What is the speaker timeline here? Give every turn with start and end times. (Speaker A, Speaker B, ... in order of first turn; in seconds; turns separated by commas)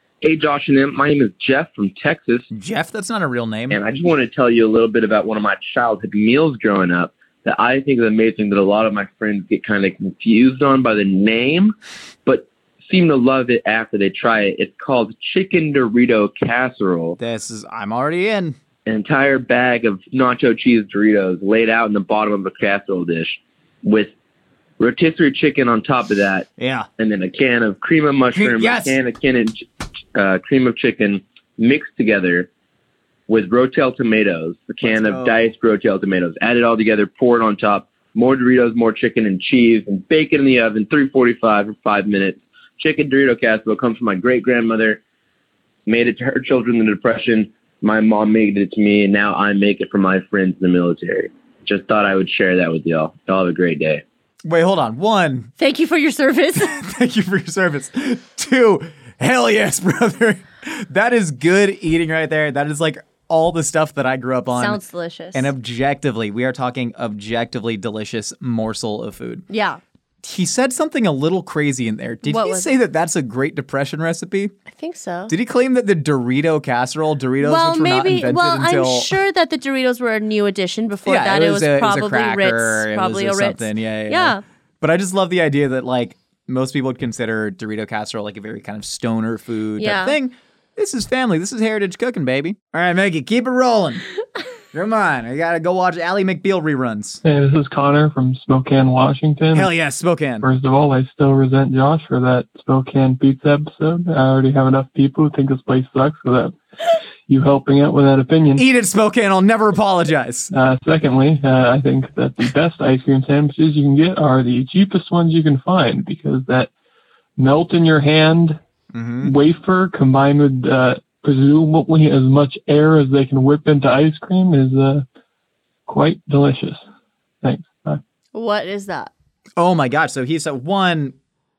Speaker A: 0.2-2.5, Speaker B: 2.5-3.8, Speaker A: 3.7-11.7, Speaker A: 12.3-17.2, Speaker B: 17.2-18.6, Speaker A: 18.9-24.1, Speaker A: 24.8-26.5, Speaker B: 26.6-26.9, Speaker A: 27.0-29.6, Speaker B: 28.3-29.0, Speaker A: 30.1-32.5, Speaker A: 33.3-45.0, Speaker B: 34.8-35.4, Speaker A: 45.9-54.0, Speaker B: 54.5-55.5, Speaker C: 55.6-56.8, Speaker B: 56.5-64.8, Speaker C: 64.5-65.5, Speaker B: 65.3-69.5, Speaker C: 69.5-69.8, Speaker B: 70.2-74.5, Speaker C: 72.2-72.7, Speaker C: 74.7-75.3, Speaker B: 75.3-79.2, Speaker C: 77.4-84.4, Speaker B: 81.0-94.0, Speaker C: 89.8-90.2, Speaker B: 94.7-97.2, Speaker D: 97.2-99.7, Speaker B: 99.5-100.5, Speaker D: 100.4-106.5, Speaker D: 107.3-108.6, Speaker B: 108.5-110.5, Speaker D: 110.5-116.7, Speaker D: 117.4-118.6, Speaker B: 118.9-119.3, Speaker D: 119.2-125.0, Speaker D: 125.9-126.8, Speaker D: 127.4-128.0, Speaker C: 128.3-129.1, Speaker B: 129.6-131.2